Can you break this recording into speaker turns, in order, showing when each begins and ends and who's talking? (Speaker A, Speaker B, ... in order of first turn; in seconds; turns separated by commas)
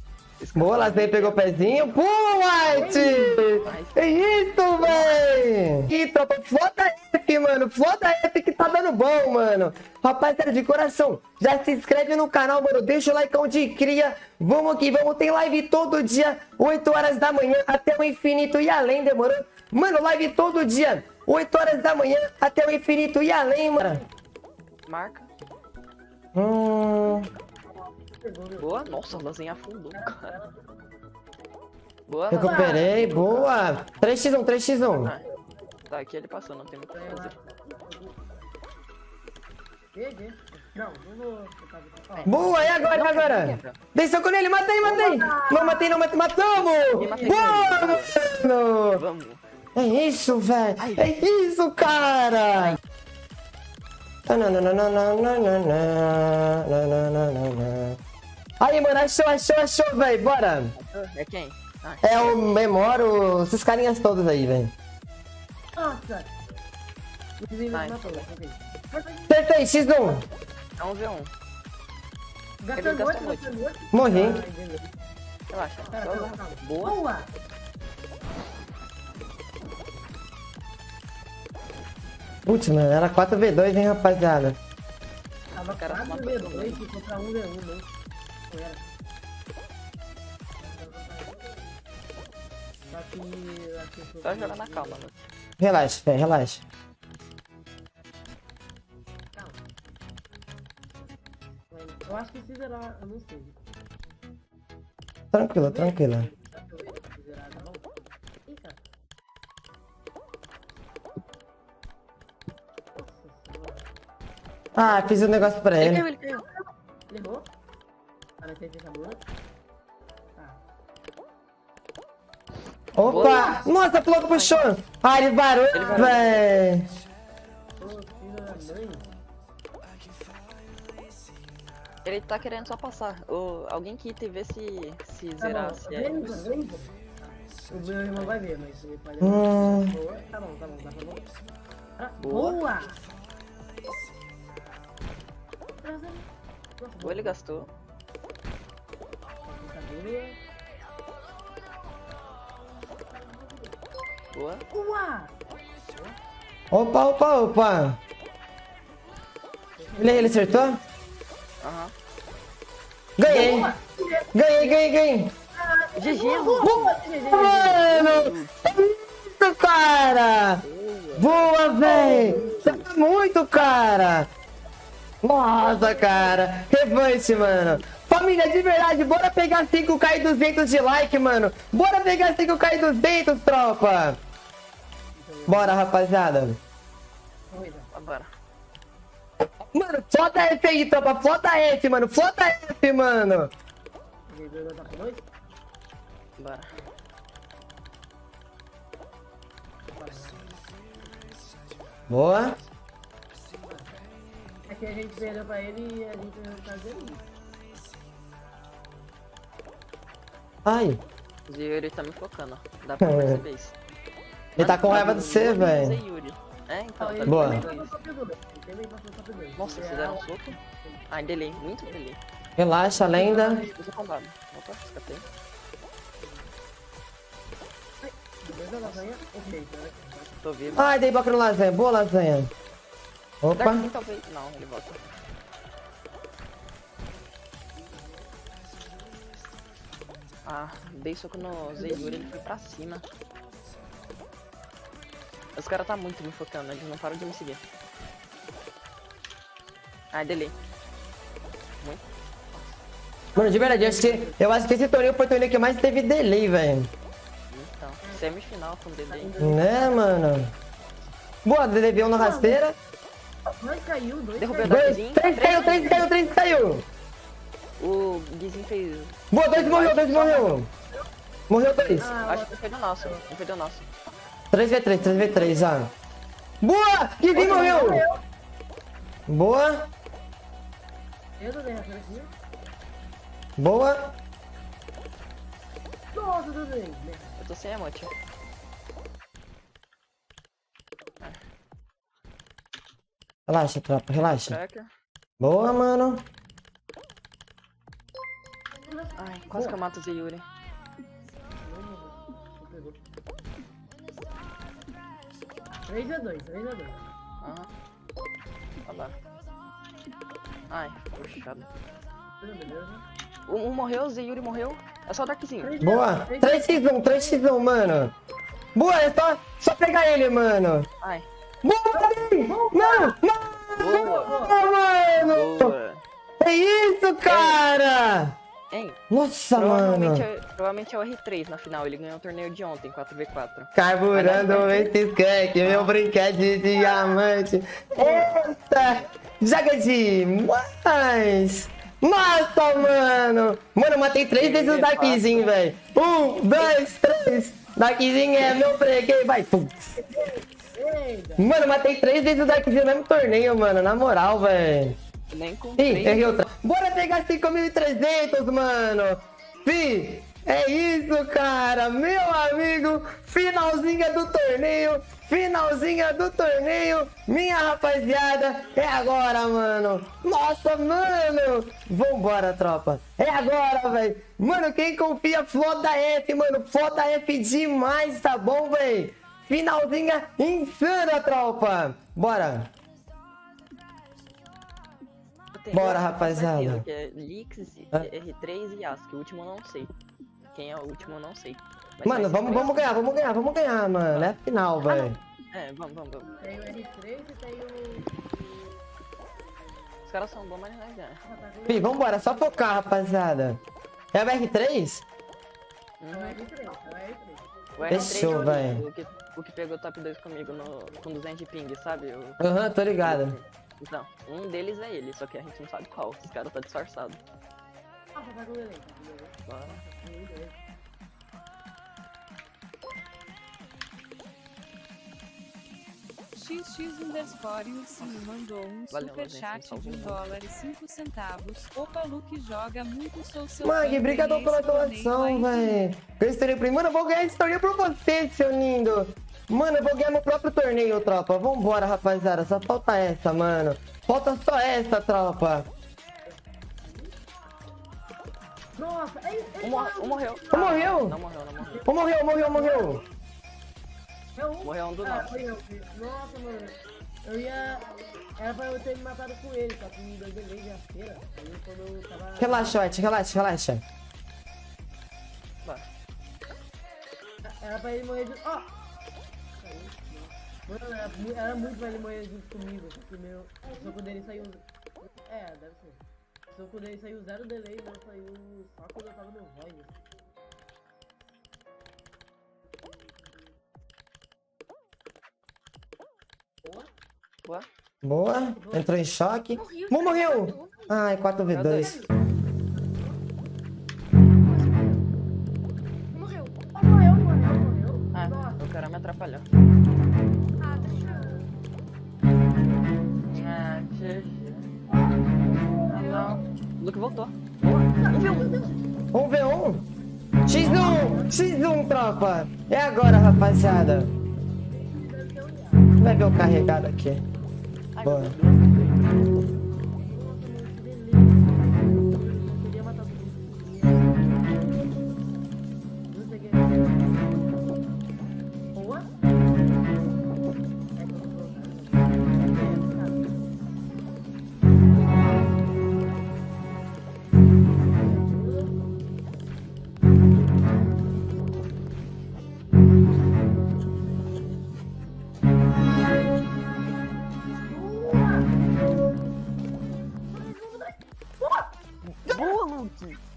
Speaker A: 0.4-2.0, Speaker B: 0.5-24.0, Speaker C: 2.7-3.7, Speaker A: 2.7-5.3, Speaker C: 23.8-24.0, Speaker A: 24.9-25.3, Speaker B: 26.3-27.3, Speaker C: 27.9-29.3, Speaker A: 28.6-30.3, Speaker C: 29.9-30.6, Speaker A: 32.1-33.6, Speaker B: 32.3-35.1, Speaker C: 32.3-33.0, Speaker A: 35.9-37.3, Speaker C: 36.9-38.2, Speaker C: 39.9-42.8, Speaker A: 42.1-43.8, Speaker B: 42.2-49.0, Speaker C: 44.8-46.0, Speaker A: 46.9-48.3, Speaker C: 47.0-47.7, Speaker A: 48.9-49.4, Speaker B: 49.7-52.8, Speaker A: 50.8-51.2, Speaker B: 54.2-58.0, Speaker B: 58.6-60.7, Speaker A: 60.8-62.4, Speaker B: 62.0-64.7, Speaker C: 65.7-66.3, Speaker C: 67.4-69.4, Speaker A: 67.7-68.2, Speaker B: 69.3-70.2, Speaker A: 70.8-71.3, Speaker C: 72.6-74.9, Speaker A: 72.7-73.5, Speaker B: 73.9-74.4, Speaker A: 75.5-77.0, Speaker C: 75.9-77.3, Speaker B: 82.5-84.6, Speaker C: 85.5-87.9, Speaker A: 85.6-86.8, Speaker C: 88.5-88.9, Speaker C: 90.6-91.4, Speaker C: 92.9-95.0, Speaker A: 94.2-95.2, Speaker B: 95.6-96.6, Speaker C: 101.7-103.6, Speaker B: 105.3-106.3, Speaker C: 105.6-108.8, Speaker C: 113.0-113.8, Speaker B: 114.8-116.0, Speaker A: 115.7-116.5, Speaker C: 117.1-117.5, Speaker C: 118.4-119.2, Speaker B: 122.9-126.9, Speaker A: 123.0-123.7, Speaker C: 123.0-123.7, Speaker A: 124.3-124.7, Speaker A: 125.7-126.4, Speaker C: 127.8-129.1, Speaker A: 132.0-136.4, Speaker C: 135.4-136.9, Speaker C: 137.6-141.3, Speaker A: 138.1-138.4, Speaker B: 139.2-139.9, Speaker C: 142.0-143.0, Speaker A: 142.2-142.6, Speaker C: 145.8-147.7, Speaker A: 147.0-147.7, Speaker C: 149.4-150.4, Speaker A: 154.3-154.6, Speaker C: 154.7-155.3, Speaker C: 155.9-156.2, Speaker B: 156.7-158.0, Speaker C: 159.8-160.8, Speaker B: 160.0-160.8, Speaker A: 161.6-161.9, Speaker B: 163.2-163.7, Speaker C: 163.2-164.8, Speaker B: 164.3-165.3, Speaker C: 165.5-168.0, Speaker A: 165.9-167.0, Speaker B: 166.6-170.6, Speaker A: 167.8-168.6, Speaker A: 170.6-172.9, Speaker B: 171.2-174.3, Speaker C: 171.8-172.6, Speaker B: 175.2-184.2, Speaker C: 175.6-176.3, Speaker A: 177.5-177.8, Speaker C: 185.2-185.8, Speaker B: 185.5-186.6, Speaker C: 187.5-187.9, Speaker A: 187.9-188.3, Speaker B: 189.7-193.5, Speaker C: 194.3-195.3, Speaker A: 196.4-196.7, Speaker C: 199.9-200.6, Speaker B: 202.1-202.6, Speaker C: 204.7-207.2, Speaker B: 210.6-211.0, Speaker A: 211.5-213.8, Speaker B: 213.0-213.4, Speaker B: 214.6-216.0, Speaker A: 214.6-217.9, Speaker C: 217.0-221.0, Speaker B: 217.2-217.7, Speaker A: 219.6-220.6, Speaker A: 221.1-222.2, Speaker B: 222.6-223.7, Speaker C: 223.1-223.7, Speaker A: 223.6-225.2, Speaker C: 226.2-226.5, Speaker C: 228.0-230.3, Speaker A: 230.4-230.9, Speaker B: 230.7-232.5, Speaker B: 233.4-233.8, Speaker A: 233.6-235.0, Speaker A: 240.4-243.0, Speaker C: 241.6-242.4, Speaker A: 245.5-247.6, Speaker A: 250.1-250.5, Speaker A: 251.8-252.8, Speaker C: 253.3-254.4, Speaker B: 253.3-256.9, Speaker A: 257.5-259.4, Speaker C: 259.1-260.2, Speaker B: 259.4-260.5, Speaker B: 261.4-262.8, Speaker C: 262.0-262.6, Speaker C: 263.5-266.1, Speaker A: 264.4-266.1, Speaker B: 264.6-266.8, Speaker A: 267.8-270.6, Speaker B: 269.3-270.7, Speaker B: 271.5-272.1, Speaker A: 271.7-273.9, Speaker C: 272.0-273.2, Speaker B: 274.5-275.9, Speaker B: 276.6-278.0, Speaker C: 277.3-278.2, Speaker B: 279.3-279.9, Speaker C: 281.4-282.3, Speaker B: 283.6-284.1, Speaker C: 286.1-287.3, Speaker A: 287.4-288.1, Speaker B: 293.5-294.6, Speaker A: 294.2-294.9, Speaker B: 295.4-296.2, Speaker C: 298.9-299.8, Speaker A: 299.1-300.4, Speaker C: 301.6-303.0, Speaker C: 305.9-307.0, Speaker A: 307.4-307.7, Speaker A: 308.8-309.2, Speaker A: 310.7-311.7, Speaker C: 312.4-313.0, Speaker A: 313.5-315.7, Speaker C: 315.6-316.8, Speaker B: 315.8-318.1, Speaker B: 318.7-320.9, Speaker A: 321.0-321.3, Speaker B: 321.6-325.7, Speaker C: 322.4-323.1, Speaker A: 323.8-324.4, Speaker C: 323.8-324.6, Speaker A: 325.2-326.0, Speaker B: 326.4-328.3, Speaker A: 327.2-327.6, Speaker A: 328.7-329.0, Speaker B: 329.1-330.3, Speaker A: 329.5-334.9, Speaker B: 333.7-349.9, Speaker A: 335.6-335.9, Speaker A: 344.4-345.5, Speaker C: 350.0-351.5, Speaker B: 351.4-355.0, Speaker A: 355.3-356.4, Speaker B: 355.8-382.7, Speaker A: 385.5-389.9, Speaker B: 385.7-386.8, Speaker A: 390.5-392.9, Speaker B: 392.0-395.2, Speaker A: 394.1-394.3, Speaker A: 395.5-396.3, Speaker C: 396.2-398.1, Speaker A: 400.1-401.2, Speaker C: 401.2-402.8, Speaker B: 401.7-403.6, Speaker B: 404.1-405.0, Speaker A: 406.0-406.4, Speaker C: 406.1-408.7, Speaker A: 407.8-412.4, Speaker B: 407.9-408.8, Speaker B: 412.4-413.4, Speaker A: 413.0-417.2, Speaker C: 418.1-420.6, Speaker A: 419.5-419.8, Speaker D: 426.4-435.8, Speaker A: 428.9-430.3, Speaker B: 433.6-445.7, Speaker C: 446.8-447.1, Speaker C: 448.8-450.9, Speaker A: 449.6-451.8, Speaker B: 450.5-451.2, Speaker C: 451.6-453.0, Speaker B: 451.8-453.0, Speaker C: 454.3-462.8, Speaker A: 454.6-455.3, Speaker B: 462.4-463.8, Speaker C: 467.4-468.7, Speaker C: 469.6-480.0, Speaker C: 486.6-486.9, Speaker B: 488.0-492.0, Speaker C: 488.5-488.9, Speaker E: 489.6-490.9, Speaker A: 491.5-492.0, Speaker C: 491.7-492.1, Speaker C: 492.7-493.2, Speaker E: 494.4-495.0, Speaker E: 496.1-496.6, Speaker C: 496.7-498.6, Speaker A: 498.1-499.5, Speaker E: 500.6-501.4, Speaker C: 500.8-501.5, Speaker A: 503.3-504.6, Speaker C: 504.9-506.4, Speaker A: 505.9-508.7, Speaker E: 505.9-506.4, Speaker C: 507.6-508.8, Speaker B: 509.1-509.9, Speaker B: 510.4-514.1, Speaker C: 510.5-511.4, Speaker C: 514.7-515.9, Speaker B: 516.0-517.2, Speaker A: 517.9-519.4, Speaker B: 518.0-518.4, Speaker C: 520.0-524.4, Speaker C: 526.1-527.2, Speaker C: 528.7-529.1, Speaker C: 530.9-533.4, Speaker C: 538.0-538.7, Speaker C: 547.7-548.5, Speaker C: 550.3-551.7, Speaker A: 552.0-553.2, Speaker B: 552.3-552.6